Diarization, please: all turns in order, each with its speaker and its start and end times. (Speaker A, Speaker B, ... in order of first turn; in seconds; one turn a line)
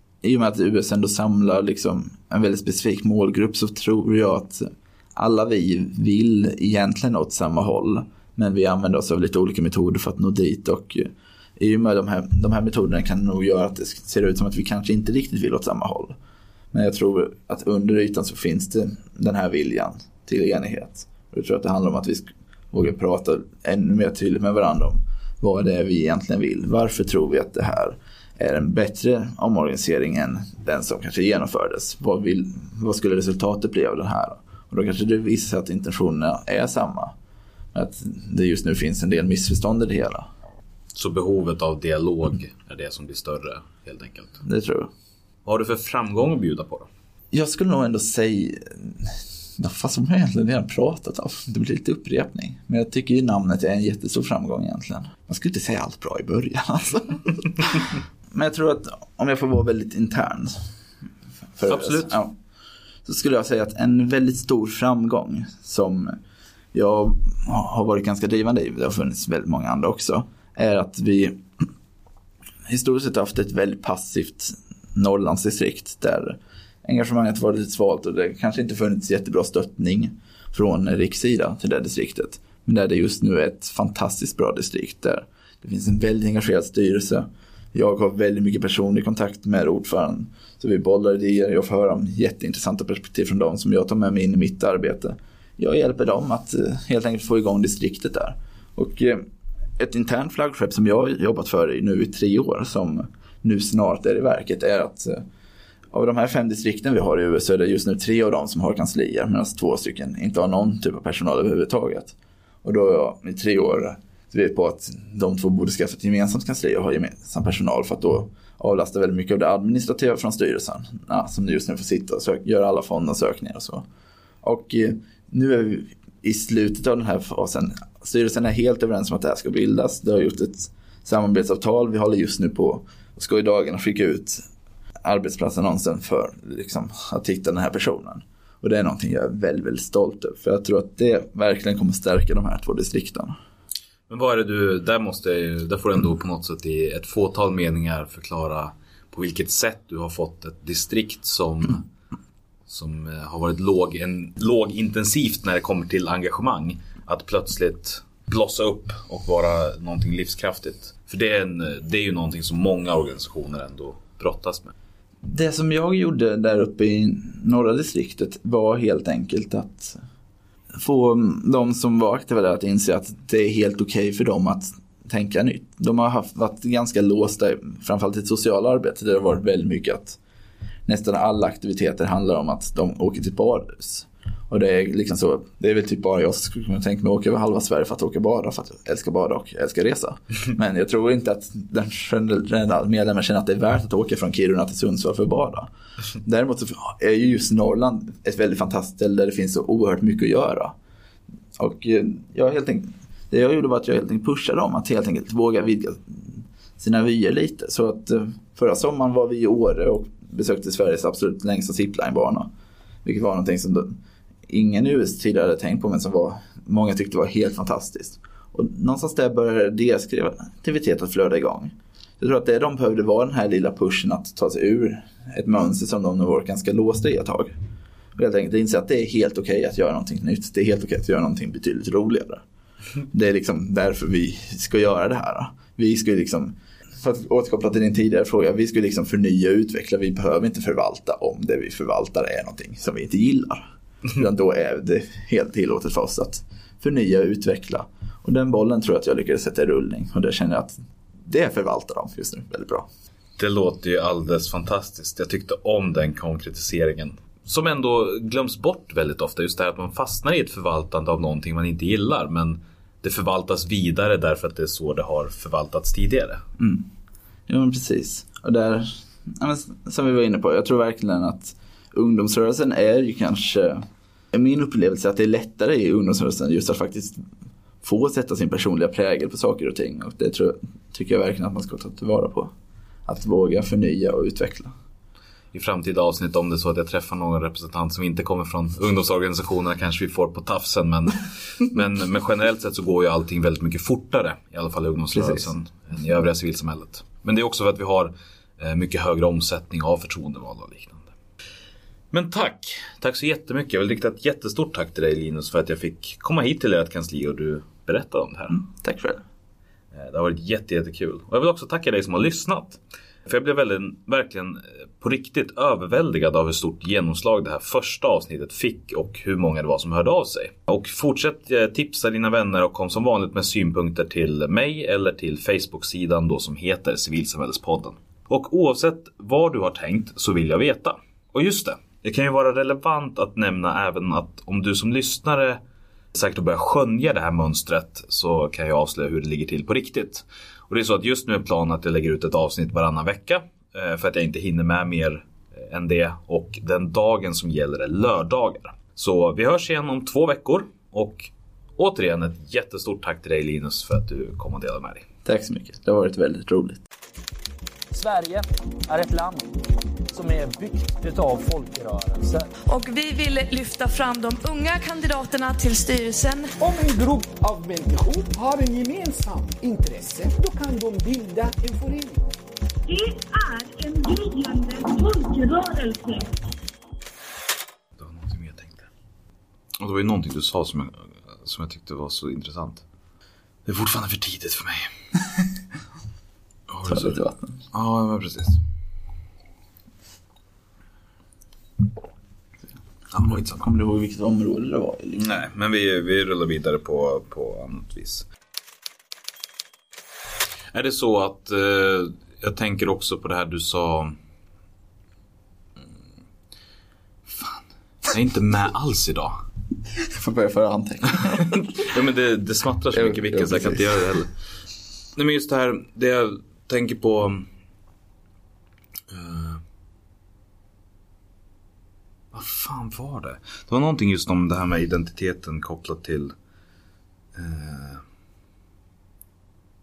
Speaker A: 0.2-16.1
Speaker A: 16.7-37.1
Speaker A: 37.7-40.3
Speaker B: 40.9-44.4
Speaker A: 44.4-44.9
Speaker B: 45.4-46.9
Speaker A: 47.3-60.5
Speaker A: 61.6-62.3
Speaker B: 61.7-62.2
Speaker A: 63.0-66.2
Speaker A: 66.7-71.4
Speaker A: 72.7-99.2
Speaker A: 99.8-105.2
Speaker A: 105.9-123.8
Speaker A: 124.4-134.4
Speaker A: 135.0-143.4
Speaker B: 144.1-151.8
Speaker B: 152.7-164.7
Speaker A: 165.2-170.0
Speaker A: 170.7-180.2
Speaker A: 180.8-195.7
Speaker A: 196.2-200.7
Speaker A: 201.6-212.5
Speaker A: 213.0-214.0
Speaker A: 214.5-227.5
Speaker A: 228.2-232.4
Speaker A: 233.1-252.9
Speaker B: 253.4-266.4
Speaker A: 266.6-266.9
Speaker A: 267.5-277.2
Speaker A: 277.8-282.5
Speaker A: 283.1-284.7
Speaker B: 285.5-301.1
Speaker A: 295.1-295.4
Speaker B: 302.1-308.6
Speaker A: 308.5-309.2
Speaker B: 309.9-335.6
Speaker B: 336.1-355.0
Speaker A: 355.2-356.8
Speaker C: 357.9-362.5
Speaker D: 362.6-366.5
Speaker E: 366.6-372.3
Speaker F: 372.9-376.3
Speaker B: 378.0-378.9
Speaker B: 379.8-382.8
Speaker B: 383.6-384.9
Speaker B: 386.7-388.6
Speaker A: 386.9-387.4
Speaker B: 393.1-393.6
Speaker A: 393.2-395.3
Speaker B: 395.1-398.3
Speaker B: 400.7-404.1
Speaker B: 407.3-409.4
Speaker A: 410.0-411.9
Speaker B: 411.9-414.3
Speaker A: 412.9-414.0
Speaker B: 415.1-417.5
Speaker B: 419.1-419.6
Speaker B: 422.3-426.3
Speaker B: 427.3-428.0